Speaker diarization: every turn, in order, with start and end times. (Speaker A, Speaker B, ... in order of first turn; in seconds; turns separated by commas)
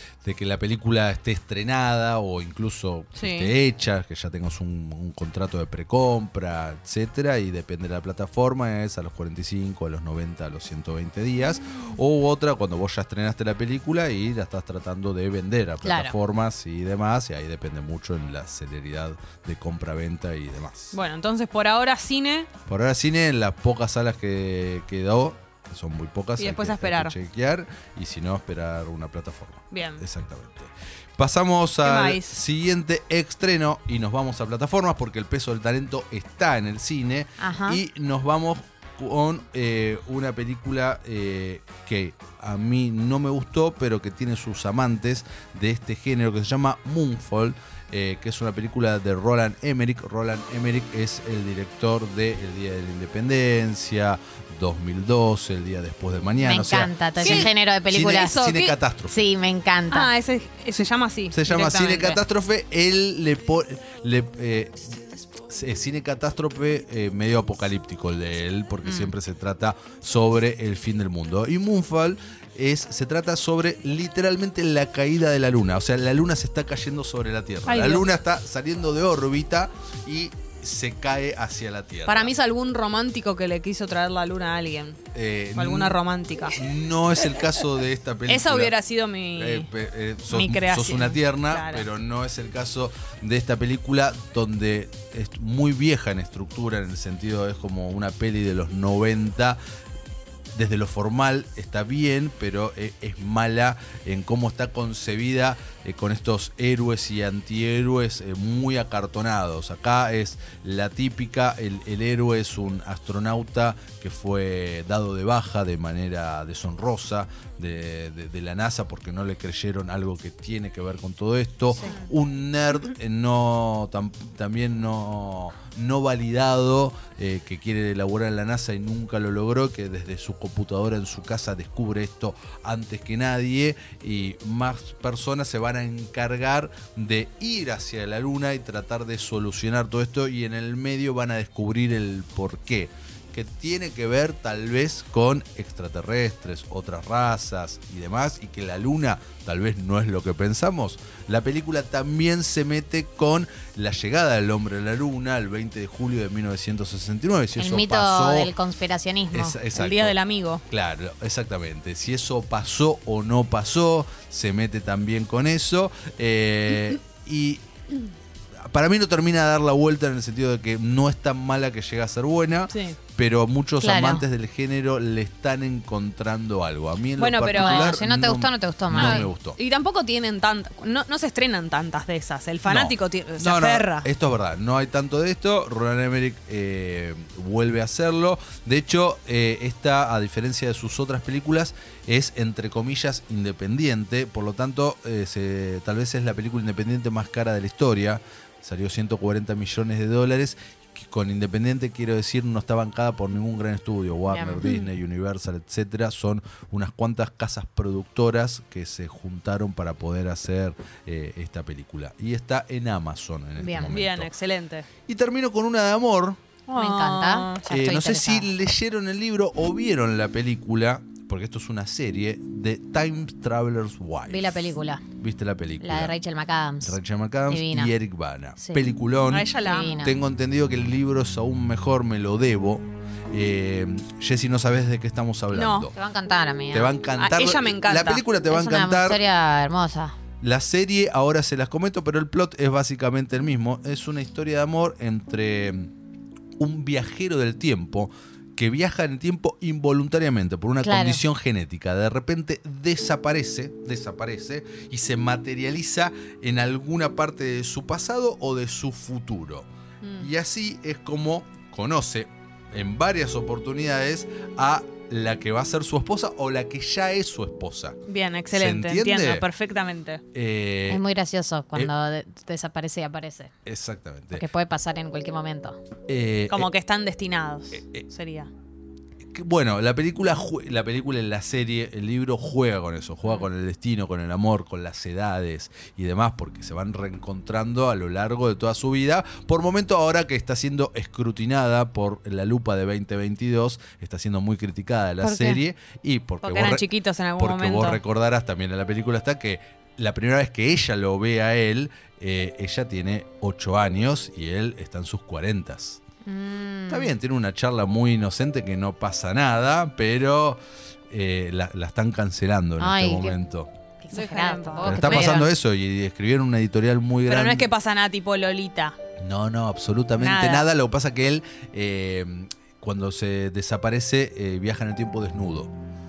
Speaker A: 0.2-20.9, Speaker B: 3.2-3.5, Speaker C: 15.8-16.1, Speaker B: 20.9-22.5, Speaker A: 22.7-59.2, Speaker B: 26.4-27.2, Speaker B: 29.7-30.1, Speaker B: 31.8-32.4, Speaker C: 37.4-37.8, Speaker C: 56.4-58.4, Speaker B: 57.2-58.8, Speaker C: 59.1-60.1, Speaker B: 59.9-62.2, Speaker A: 61.3-82.3, Speaker B: 68.8-69.1, Speaker B: 77.7-78.1, Speaker B: 82.1-85.0, Speaker A: 85.1-88.7, Speaker B: 85.5-86.6, Speaker B: 88.3-89.7, Speaker A: 89.3-99.6, Speaker B: 90.3-91.9, Speaker A: 100.5-158.5, Speaker B: 121.8-122.1, Speaker C: 157.6-159.6, Speaker A: 159.3-160.2, Speaker B: 159.7-160.6, Speaker A: 160.7-167.6, Speaker A: 168.6-179.6, Speaker B: 172.7-173.0, Speaker C: 173.8-174.2, Speaker B: 177.2-178.0, Speaker C: 177.6-179.3, Speaker B: 178.9-184.1, Speaker A: 182.7-214.3, Speaker C: 204.3-204.8, Speaker B: 213.7-214.9, Speaker A: 215.1-216.4, Speaker B: 216.7-217.7, Speaker C: 216.8-218.5, Speaker A: 217.7-224.6, Speaker C: 224.3-225.0, Speaker A: 225.2-226.1, Speaker C: 225.8-227.0, Speaker A: 226.8-235.9, Speaker C: 227.5-227.9, Speaker B: 229.3-230.1, Speaker C: 229.6-230.2, Speaker B: 235.5-235.9, Speaker C: 235.9-236.9, Speaker A: 236.7-239.2, Speaker B: 237.2-238.2, Speaker C: 238.5-240.2, Speaker A: 240.4-245.9, Speaker A: 246.6-259.7, Speaker C: 250.8-251.2, Speaker B: 260.0-260.3, Speaker A: 260.2-268.0, Speaker B: 268.1-270.2, Speaker A: 268.5-269.5, Speaker A: 270.3-271.0, Speaker C: 270.9-273.5, Speaker A: 273.7-274.4, Speaker C: 274.3-275.8, Speaker A: 276.1-276.7, Speaker B: 276.5-278.5, Speaker A: 277.7-278.0, Speaker A: 279.2-296.9, Speaker C: 295.2-295.6, Speaker B: 296.4-298.0, Speaker A: 297.4-306.0, Speaker C: 306.2-307.1, Speaker A: 306.9-313.7, Speaker C: 312.8-313.4, Speaker C: 314.0-315.5, Speaker B: 314.1-315.4, Speaker A: 314.9-317.7, Speaker B: 317.3-319.0, Speaker A: 319.2-325.7, Speaker B: 320.2-320.7